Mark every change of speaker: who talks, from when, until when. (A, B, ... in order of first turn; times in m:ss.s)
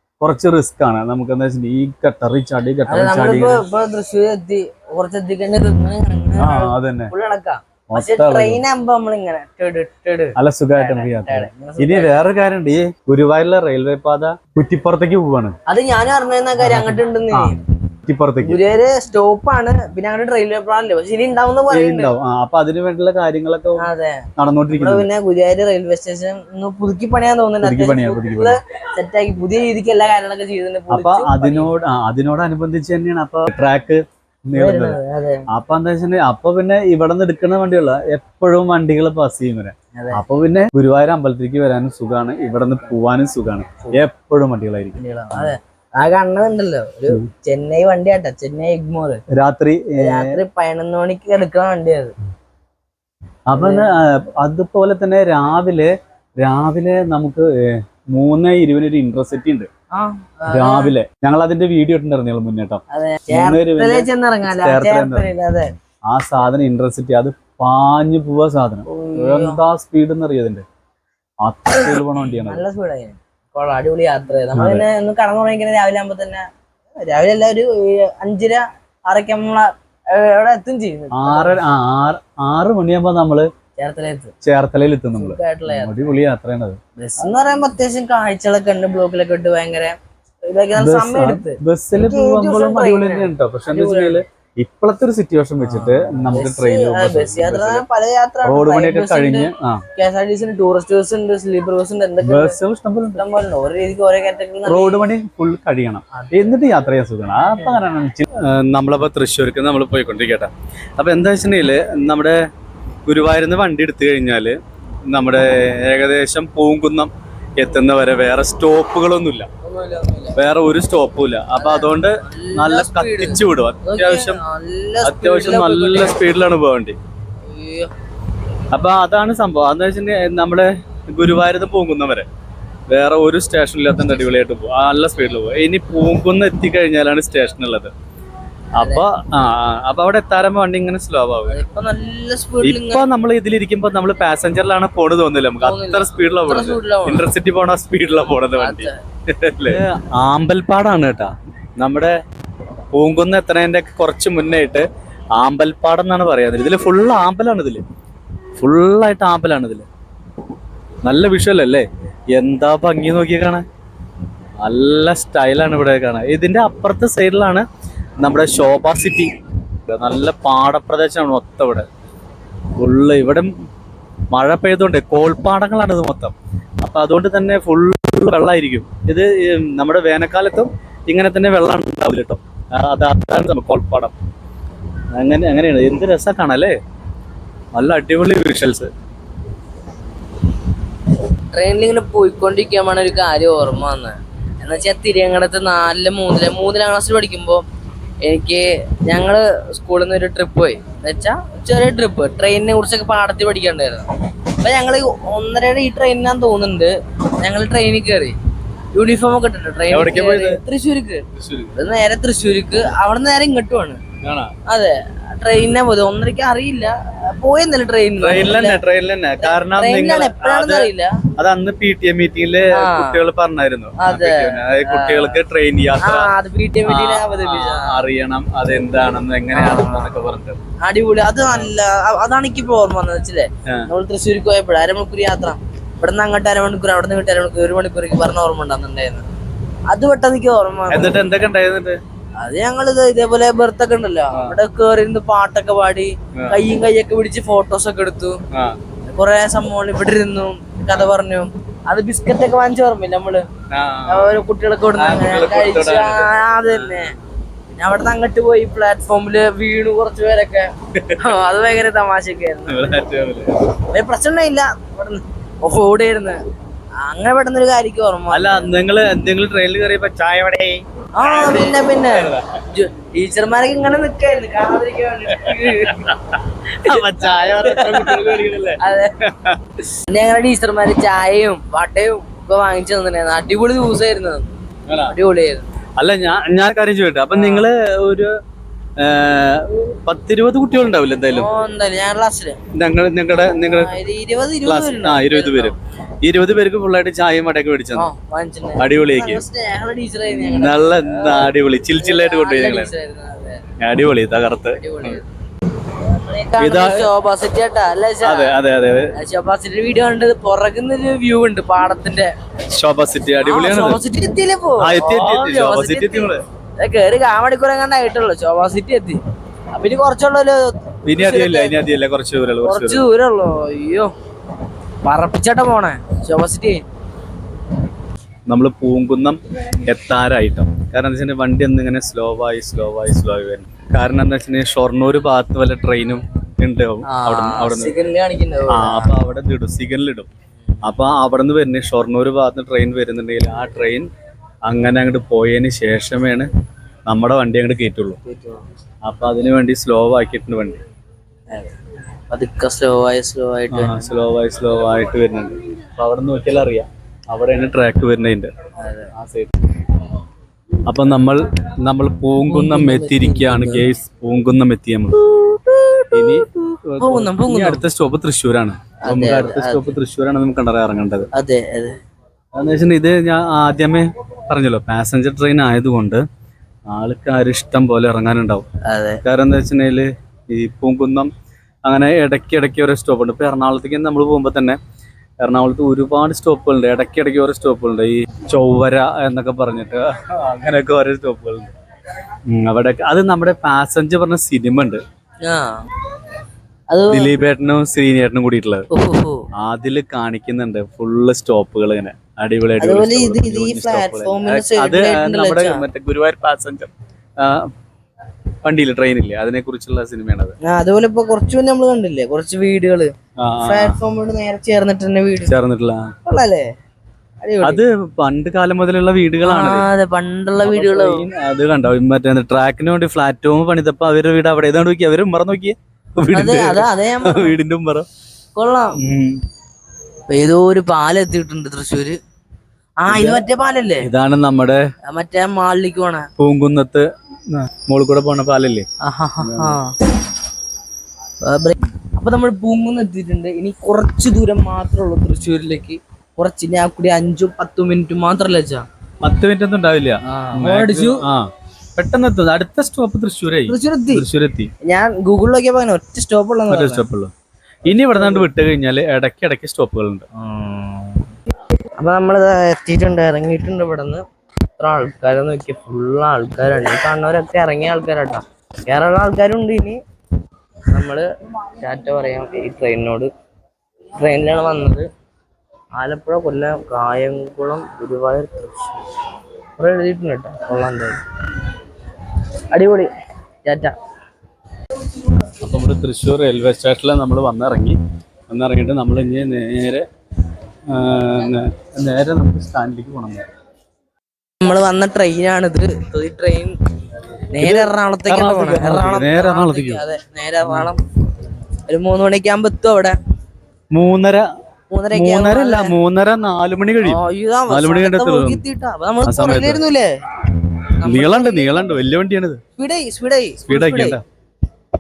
0:00.2-0:03.6 A
0:02.9-0:12.2 B
0:06.4-0:07.1 A
0:07.9-0:08.6 A
0:10.4-0:15.5 A
0:15.7-0:17.6 B
0:16.6-0:17.6 A
0:18.1-0:18.6 A
0:18.4-0:22.1 B
0:21.7-0:23.8 A
0:23.8-0:31.7 B
0:24.4-0:25.1 A
0:27.6-0:28.6 A
0:30.9-0:35.0 A
0:34.6-0:35.4 B
0:35.5-0:45.5 A
0:40.0-0:40.2 B
0:45.0-0:49.2 B
0:49.3-0:50.4 A
0:50.0-0:52.1 B
0:53.5-0:59.7 A
0:53.6-0:53.9 B
0:59.9-1:00.9 B
1:00.5-1:05.3 A
1:02.9-1:05.7 B
1:06.1-1:10.6 A
1:08.9-1:09.6 B
1:11.4-1:12.6 A
1:12.3-1:16.4 B
1:14.6-1:14.8 A
1:17.0-1:21.6 B
1:21.1-1:23.5 A
1:23.8-1:24.3 B
1:24.4-1:26.8 A
1:25.2-1:25.9 B
1:27.0-1:30.0 B
1:30.5-1:34.2 B
1:30.8-1:37.8 A
1:35.6-1:42.6 B
1:38.4-1:39.8 A
1:42.2-1:43.2 A
1:43.2-1:45.1 B
1:44.6-1:52.4 A
1:46.2-1:46.5 B
1:47.4-1:47.8 B
1:53.0-1:54.6 A
1:55.1-1:59.5 A
1:59.6-2:00.4 B
2:00.4-2:04.4 A
2:01.6-2:06.2 B
2:05.0-2:07.0 A
2:07.5-2:07.9 B
2:08.7-2:12.3 A
2:12.9-2:17.9 A
2:18.8-2:21.6 A
2:18.8-2:19.0 B
2:21.5-2:23.0 B
2:22.6-2:32.2 A
2:25.6-2:27.3 B
2:28.5-2:28.9 B
2:32.9-2:37.8 A
2:38.6-2:39.9 A
2:41.0-2:43.6 A
2:44.6-2:47.7 A
2:48.2-2:49.3 A
2:49.9-2:51.9 A
2:52.8-2:53.5 A
2:54.3-3:04.2 A
3:05.1-3:06.8 A
3:07.7-3:08.9 A
3:11.4-3:17.6 B
3:18.2-3:28.4 B
3:28.9-3:34.0 B
3:29.9-3:30.6 A
3:31.4-3:31.7 A
3:34.2-3:34.5 A
3:34.7-3:38.8 B
3:38.2-3:46.3 A
3:39.4-3:41.2 B
3:42.7-3:43.2 B
3:44.0-3:45.4 B
3:46.0-3:48.0 B
3:46.9-3:50.6 A
3:49.5-3:50.2 B
3:50.8-3:59.3 B
3:59.9-4:01.2 B
4:00.9-4:02.0 A
4:02.4-4:08.4 B
4:06.4-4:06.6 A
4:08.5-4:08.8 A
4:09.1-4:13.4 B
4:13.7-4:14.3 A
4:14.1-4:17.2 B
4:15.0-4:17.1 A
4:17.8-4:22.9 B
4:21.0-4:21.3 A
4:22.7-4:23.7 A
4:23.9-4:26.4 B
4:27.0-4:28.7 B
4:28.3-4:32.5 A
4:31.2-4:36.1 B
4:35.3-4:39.6 A
4:36.8-4:39.1 B
4:40.0-4:44.5 B
4:44.9-4:45.1 A
4:45.1-4:45.7 B
4:46.0-4:48.3 A
4:47.3-4:47.7 B
4:49.0-4:51.5 A
4:51.3-4:52.6 B
4:52.7-4:54.0 A
4:53.5-4:55.8 B
4:54.6-4:58.1 A
4:58.0-5:03.6 B
4:58.8-4:59.4 A
5:00.3-5:02.9 A
5:03.8-5:05.2 A
5:04.7-5:05.3 B
5:05.9-5:08.6 B
5:06.6-5:07.1 A
5:08.2-5:09.1 A
5:09.1-5:12.3 B
5:12.7-5:14.0 A
5:13.4-5:19.2 B
5:14.8-5:16.4 A
5:19.7-5:21.8 B
5:21.1-5:23.1 A
5:22.6-5:24.1 B
5:25.0-5:26.8 B
5:28.5-5:38.0 A
5:37.0-5:39.2 B
5:38.7-5:40.3 A
5:40.8-5:44.1 A
5:44.6-5:46.5 A
5:47.1-5:48.2 A
5:48.2-5:48.6 B
5:49.0-5:50.8 A
5:52.3-5:54.0 B
5:53.7-5:58.5 A
5:58.8-5:59.1 B
5:59.1-5:59.8 A
6:00.9-6:05.2 A
6:02.4-6:03.9 B
6:05.2-6:07.8 B
6:06.1-6:11.3 A
6:09.0-6:10.0 B
6:11.3-6:12.0 B
6:12.5-6:16.2 A
6:16.9-6:18.7 A
6:18.9-6:19.2 B
6:19.2-6:21.3 A
6:21.9-6:24.8 A
6:25.4-6:31.7 A
6:32.5-6:35.0 A
6:35.4-6:35.8 B
6:36.9-6:37.3 B
6:37.1-6:38.9 A
6:38.9-6:39.4 B
6:39.6-6:47.7 A
6:42.8-6:45.8 B
6:48.6-6:50.6 A
6:50.6-6:55.5 B
6:53.4-6:54.0 A
6:55.5-6:56.1 A
6:56.2-6:56.7 B
6:57.4-6:57.8 B
6:57.6-6:59.9 A
6:59.4-7:01.3 B
7:00.6-7:08.1 A
7:06.3-7:07.6 B
7:08.6-7:09.0 B
7:09.0-7:09.4 A
7:10.3-7:12.2 B
7:13.0-7:14.1 B
7:13.1-7:13.4 A
7:14.0-7:14.8 A
7:15.1-7:16.3 B
7:16.4-7:18.9 A
7:19.0-7:20.0 B
7:19.4-7:19.8 A
7:21.4-7:28.8 B
7:29.2-7:34.7 A
7:30.2-7:31.2 B
7:33.7-7:34.2 B
7:34.8-7:37.1 B
7:36.7-7:37.3 A
7:37.9-7:40.2 A
7:38.2-7:38.5 B
7:40.4-7:41.2 B
7:42.0-7:44.2 B
7:44.8-7:50.0 B
7:50.9-7:53.3 B
7:54.2-7:55.1 B
7:56.0-7:59.0 B
7:59.8-8:01.2 B
8:02.7-8:03.1 B
8:03.6-8:03.9 B
8:05.6-8:08.0 A
8:08.5-8:10.1 A
8:10.9-8:13.5 A
8:14.6-8:16.7 B
8:17.5-8:21.0 B
8:17.6-8:20.0 A
8:20.6-8:20.9 A
8:21.9-8:23.2 B
8:23.9-8:24.5 A
8:24.9-8:26.0 B
8:25.1-8:28.6 A
8:27.0-8:30.1 B
8:29.3-8:29.8 A
8:31.0-8:32.0 B
8:31.0-8:32.6 A
8:32.8-8:34.2 B
8:33.6-8:34.2 A